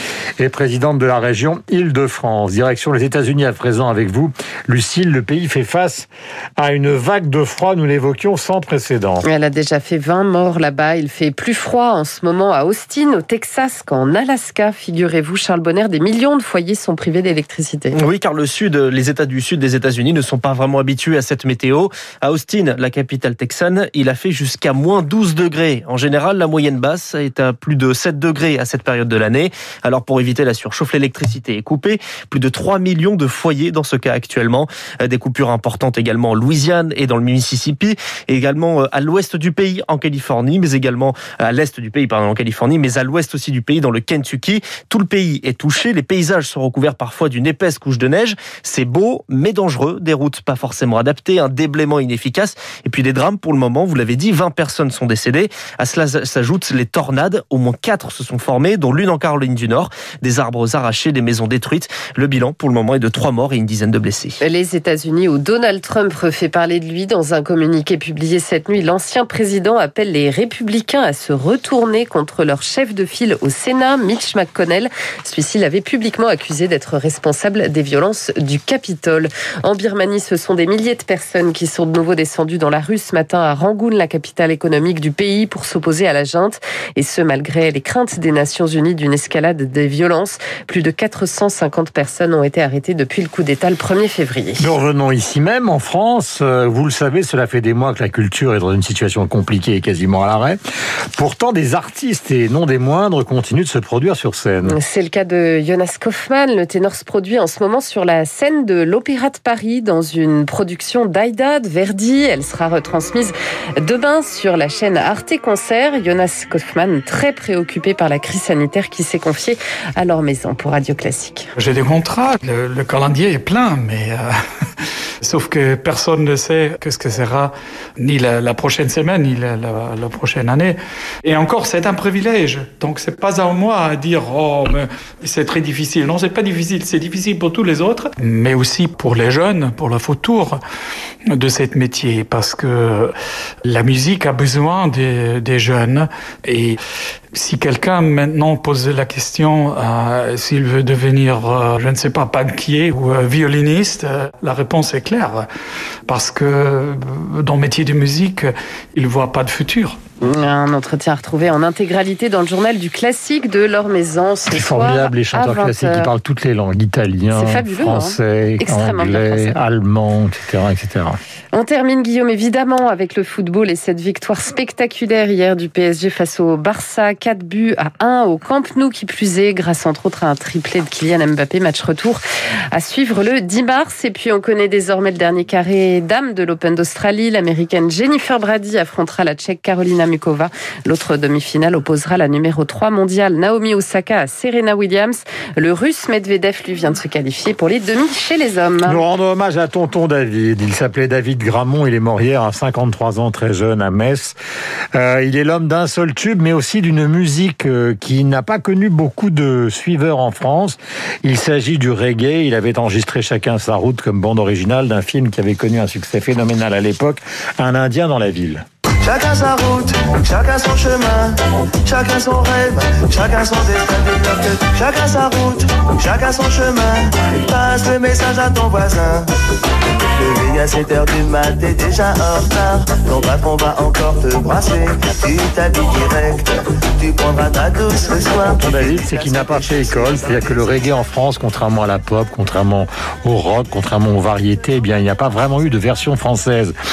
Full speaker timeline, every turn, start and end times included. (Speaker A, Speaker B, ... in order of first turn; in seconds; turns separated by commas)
Speaker A: 0.4-9.2, Speaker B: 9.2-18.0, Speaker C: 17.9-64.4, Speaker B: 64.4-94.7, Speaker A: 94.6-100.6, Speaker A: 101.2-104.8, Speaker B: 104.7-121.5, Speaker D: 121.6-124.2, Speaker D: 125.2-140.6, Speaker D: 141.3-143.1, Speaker D: 143.7-146.8, Speaker D: 147.3-155.5, Speaker D: 156.1-160.0, Speaker B: 160.2-166.1, Speaker A: 164.5-171.2, Speaker B: 167.3-169.6, Speaker B: 171.5-182.2, Speaker B: 182.7-199.0, Speaker A: 198.9-204.4, Speaker A: 204.9-218.6, Speaker E: 219.0-229.3, Speaker E: 230.1-241.0, Speaker A: 238.4-246.7